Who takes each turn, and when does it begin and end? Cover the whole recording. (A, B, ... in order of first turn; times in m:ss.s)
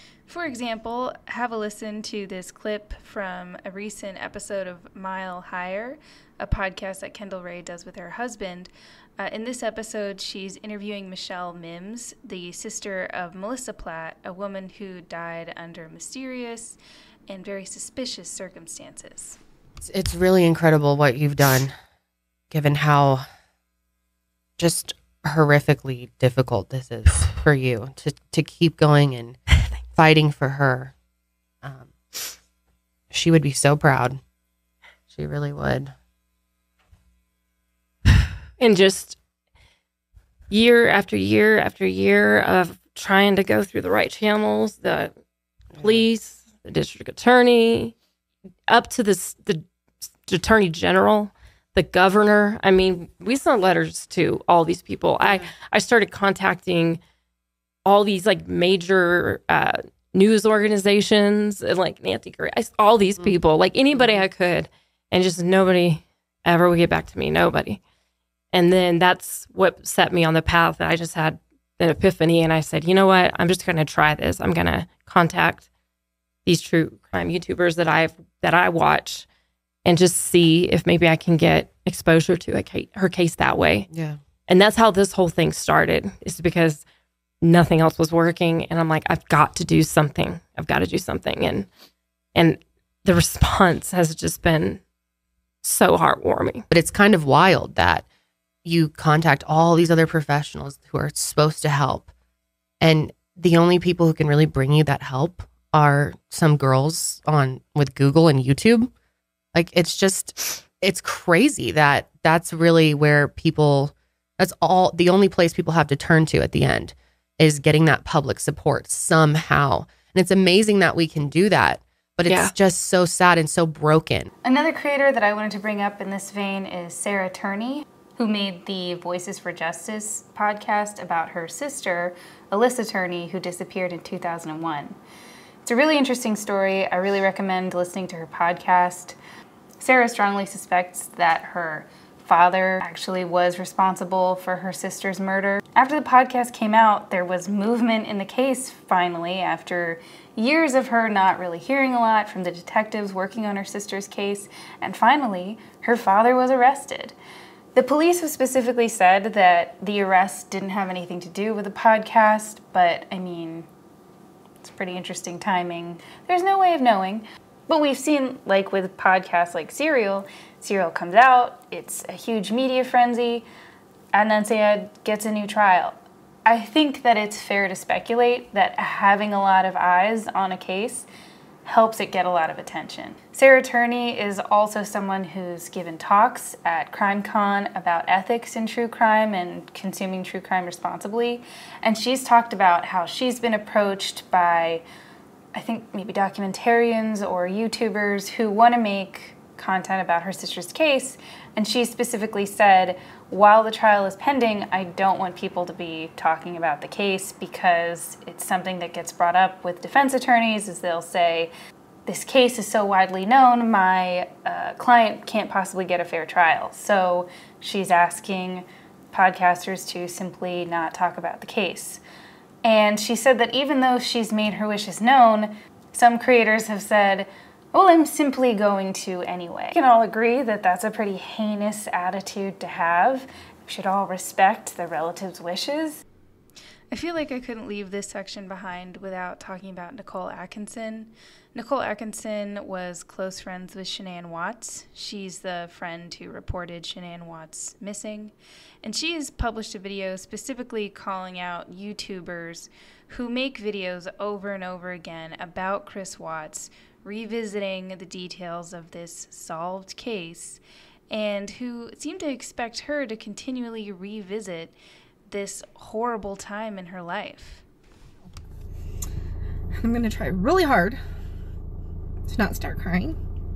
0:00.3-0:19.4 A
0:19.8-0:21.7 B
0:22.5-0:23.2 B
0:24.6-0:30.9 B
0:31.6-0:32.3 B
0:33.1-0:34.2 B
0:35.1-0:35.9 B
0:38.6-0:39.2 C
0:40.5-0:45.1 C
0:45.7-0:46.1 B
0:45.8-0:47.9 C
0:48.6-0:57.0 C
0:55.2-0:55.5 B
0:57.8-1:07.8 C
1:03.9-1:04.3 B
1:08.5-1:15.7 C
1:16.4-1:19.3 C
1:19.8-1:23.9 C
1:23.9-1:24.2 B
1:24.4-1:26.8 C
1:27.4-1:31.7 C
1:32.3-1:34.8 C
1:35.6-1:36.7 C
1:36.7-1:38.0 B
1:38.6-1:42.1 B
1:42.8-1:48.9 B
1:49.5-2:04.3 B
2:04.4-2:14.9 A
2:15.6-2:19.2 A
2:19.8-2:37.1 A
2:37.7-2:43.7 A
2:44.6-2:53.4 A
2:54.1-3:01.1 A
3:01.6-3:14.8 A
3:15.5-3:31.5 A
3:32.0-3:42.0 A
3:42.6-3:56.0 A
3:56.9-4:24.7 A
4:25.3-4:27.6 A
4:29.8-4:31.0 D
4:32.3-4:33.2 D